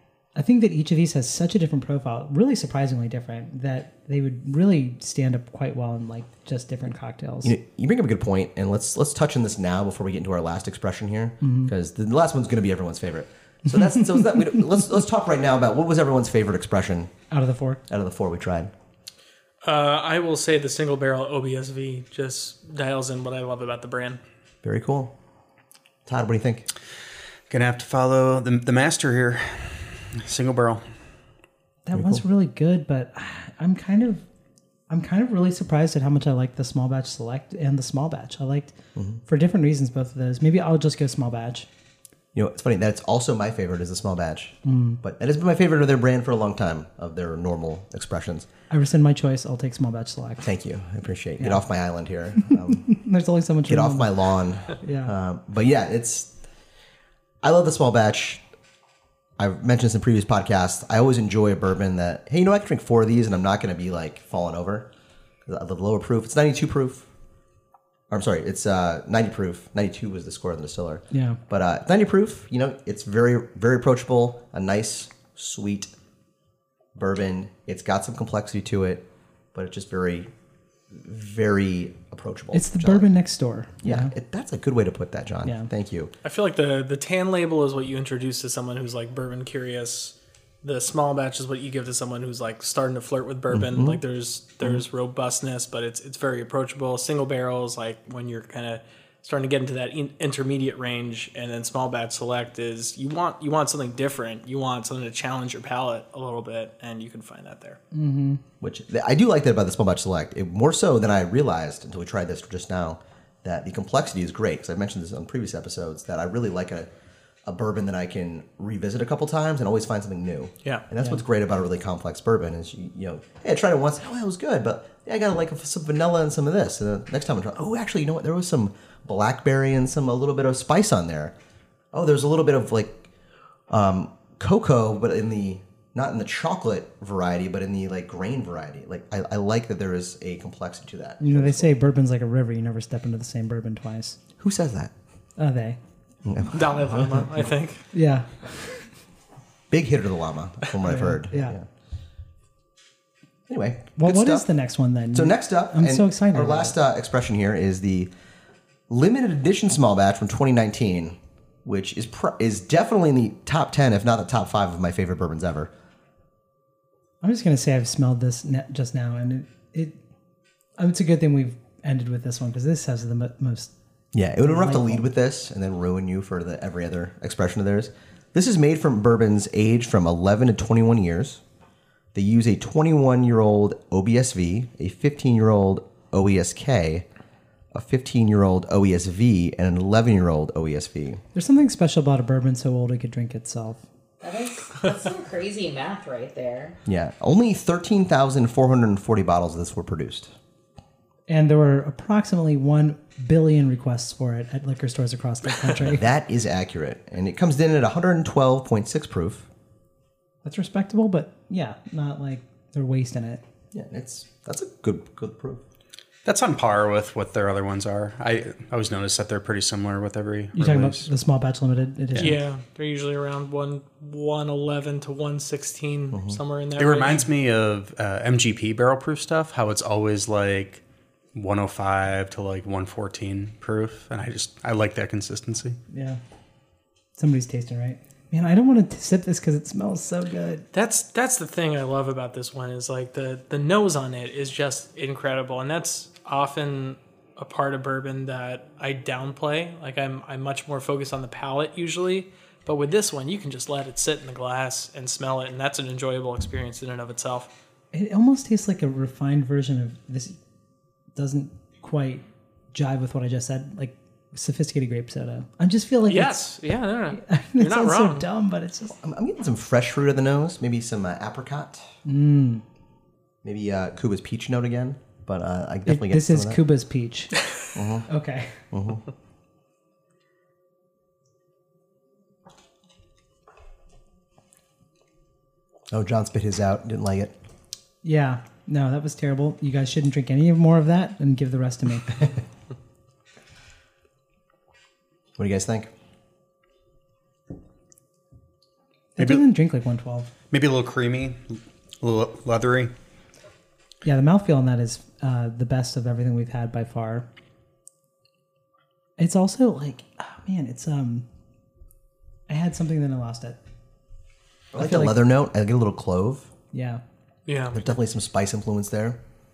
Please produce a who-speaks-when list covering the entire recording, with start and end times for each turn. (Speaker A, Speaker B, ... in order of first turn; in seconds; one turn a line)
Speaker A: 0.3-7.5
Speaker B: 7.4-17.1
Speaker A: 11.4-11.7
Speaker A: 13.8-14.3
Speaker A: 17.3-17.8
Speaker B: 17.9-18.7
Speaker C: 19.6-24.2
Speaker B: 24.6-25.1
Speaker B: 26.1-26.7
Speaker D: 27.5-30.8
Speaker A: 31.9-34.2
Speaker B: 31.9-32.2
Speaker A: 34.9-41.7
Speaker B: 39.0-39.2
Speaker B: 42.3-48.5
Speaker A: 44.6-45.0
Speaker A: 48.7-50.5
Speaker B: 50.4-52.9
Speaker A: 52.7-54.1
Speaker B: 53.7-56.3
Speaker A: 54.7-55.1
Speaker B: 57.4-58.4
Speaker B: 59.4-64.9
Speaker B: 65.5-67.1
Speaker B: 68.1-75.9
Speaker A: 71.1-71.4
Speaker B: 77.0-80.3
Speaker B: 80.9-83.1
Speaker A: 82.5-84.1
Speaker B: 83.8-86.1
Speaker C: 86.2-107.8
Speaker B: 93.5-94.0
Speaker A: 107.9-108.4
Speaker B: 108.6-116.9
Speaker B: 117.5-131.3
Speaker B: 131.9-133.1
Speaker B: 133.7-141.7
Speaker A: 141.2-144.2
Speaker B: 144.4-144.9
Speaker A: 145.4-145.8
Speaker B: 146.2-147.4
Speaker C: 146.5-147.9
Speaker A: 147.9-148.9
Speaker B: 149.7-151.7
Speaker A: 150.8-151.6
Speaker B: 153.5-154.5
Speaker A: 154.0-156.8
Speaker B: 155.1-158.1
Speaker B: 158.9-165.7
Speaker A: 167.2-170.0
Speaker A: 170.8-173.7
Speaker B: 174.1-181.4
Speaker A: 174.4-175.0
Speaker B: 182.1-187.1
Speaker B: 187.7-191.2
Speaker A: 191.3-193.8
Speaker E: 194.2-196.8
Speaker B: 196.9-200.3
Speaker A: 201.3-206.1
Speaker B: 205.8-209.5
Speaker A: 210.4-213.4
Speaker B: 213.7-215.6
Speaker D: 216.2-221.1
Speaker A: 220.6-222.4
Speaker C: 222.2-227.3
Speaker B: 226.1-226.4
Speaker D: 226.8-230.8
Speaker D: 231.3-235.8
Speaker A: 235.9-236.2
Speaker A: 237.2-240.6
Speaker C: 240.7-257.5
Speaker A: 257.9-260.4
Speaker A: 261.2-266.5
Speaker C: 266.1-268.3
Speaker A: 267.1-269.0
Speaker B: 268.9-271.9
Speaker A: 272.1-272.6
Speaker B: 273.4-276.6
Speaker A: 275.9-277.4
Speaker B: 277.7-278.1
Speaker A: 278.1-278.7
Speaker B: 278.7-279.1
Speaker B: 285.9-287.3
Speaker A: 288.0-292.1
Speaker B: 295.4-295.9
Speaker A: 299.2-300.3
Speaker D: 300.5-302.9
Speaker A: 304.0-307.2
Speaker A: 309.2-311.2
Speaker A: 312.5-313.6
Speaker B: 314.7-316.5
Speaker A: 314.8-315.2
Speaker A: 316.7-317.0
Speaker C: 317.5-317.8
Speaker B: 317.7-319.2